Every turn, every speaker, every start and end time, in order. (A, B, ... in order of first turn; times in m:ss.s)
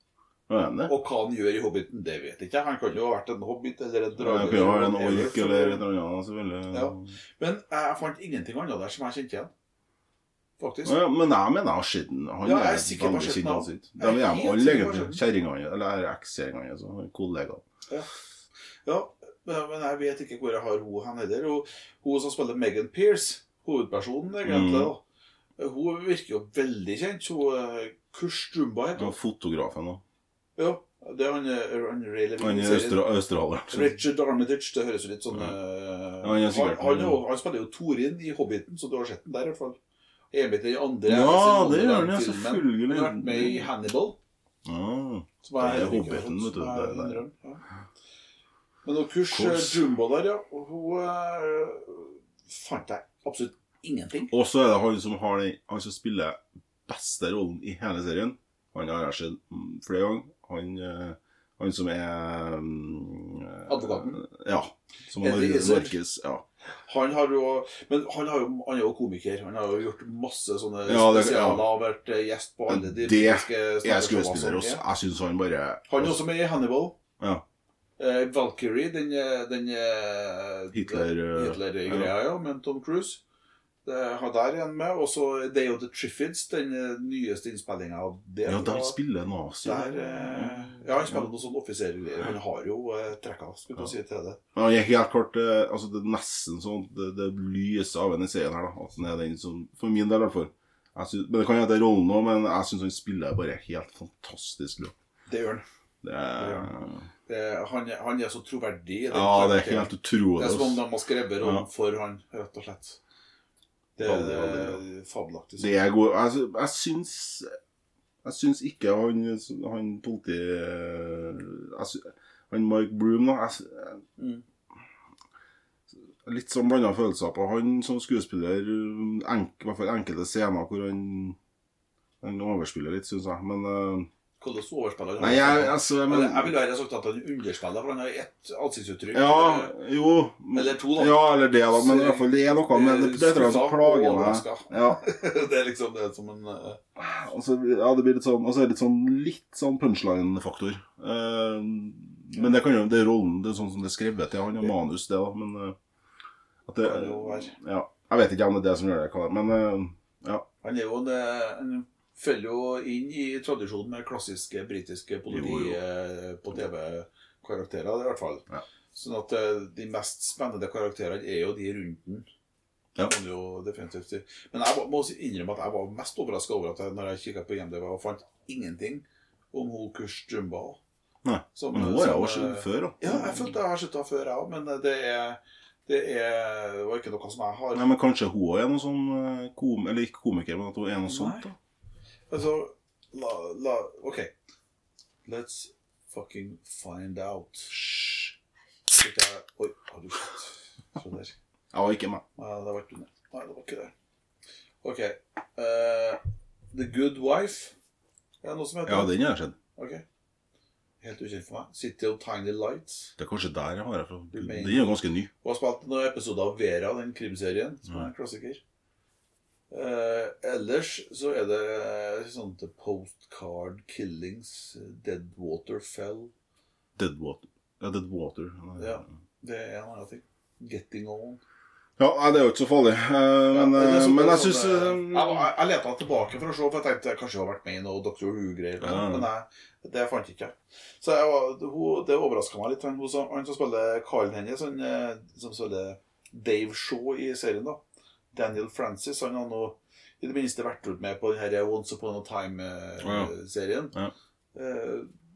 0:00.5-0:01.0 A
0:00.9-0:05.9 B
0:04.2-0:07.1 A
0:06.7-0:09.5 B
0:10.6-0:11.0 B
0:10.8-0:17.6 A
0:12.4-0:15.2 B
0:18.8-0:25.0 B
0:24.4-0:24.9 A
0:25.6-0:29.2 B
0:29.0-0:30.0 A
0:30.6-0:33.0 B
0:32.4-0:33.9 A
0:33.7-0:39.8 B
0:36.2-0:37.2 A
0:40.3-0:44.2 B
0:41.1-0:43.7 A
0:44.6-0:47.2 A
0:45.4-0:47.6 B
0:48.8-0:54.3 B
0:49.3-0:49.8 A
0:54.3-1:06.4 A
1:03.7-1:04.2 B
1:05.2-1:05.9 B
1:06.9-1:14.8 B
1:10.9-1:11.7 A
1:12.7-1:16.2 A
1:15.9-1:17.0 B
1:18.0-1:23.2 B
1:20.7-1:22.1 A
1:23.8-1:29.0 B
1:28.5-1:31.3 A
1:29.6-1:34.4 B
1:34.6-1:44.9 A
1:45.3-1:45.6 B
1:46.0-1:47.1 A
1:46.4-1:46.7 B
1:47.3-1:53.0 B
1:49.1-1:50.8 A
1:51.4-1:51.7 A
1:54.0-1:55.7 B
1:54.0-1:54.8 A
1:55.6-1:57.6 A
1:58.2-2:04.0 A
2:04.2-2:04.4 B
2:06.2-2:11.4 A
2:12.2-2:14.1 A
2:14.4-2:19.7 B
2:15.2-2:16.5 A
2:19.1-2:25.0 A
2:20.5-2:26.8 B
2:27.0-2:35.8 A
2:36.7-2:40.5 A
2:36.8-2:37.6 B
2:40.6-2:52.3 B
2:45.3-2:45.8 A
2:53.0-3:00.8 B
3:01.2-3:03.5 A
3:01.6-3:07.9 B
3:07.8-3:11.6 A
3:11.1-3:11.4 B
3:12.3-3:14.3 B
3:15.2-3:17.8 B
3:17.7-3:18.3 A
3:18.9-3:21.4 B
3:21.7-3:22.2 A
3:22.4-3:23.9 B
3:24.8-3:26.2 B
3:26.7-3:27.7 B
3:28.4-3:29.2 B
3:28.9-3:29.6 A
3:29.8-3:30.0 B
3:31.0-3:33.2 B
3:33.2-3:35.3 A
3:34.3-3:38.6 B
3:39.7-3:46.3 B
3:47.0-3:49.1 A
3:48.8-3:51.4 B
3:52.0-3:55.5 A
3:53.5-4:07.8 B
3:58.8-3:59.3 A
4:08.3-4:14.0 B
4:13.0-4:13.3 A
4:14.5-4:15.1 B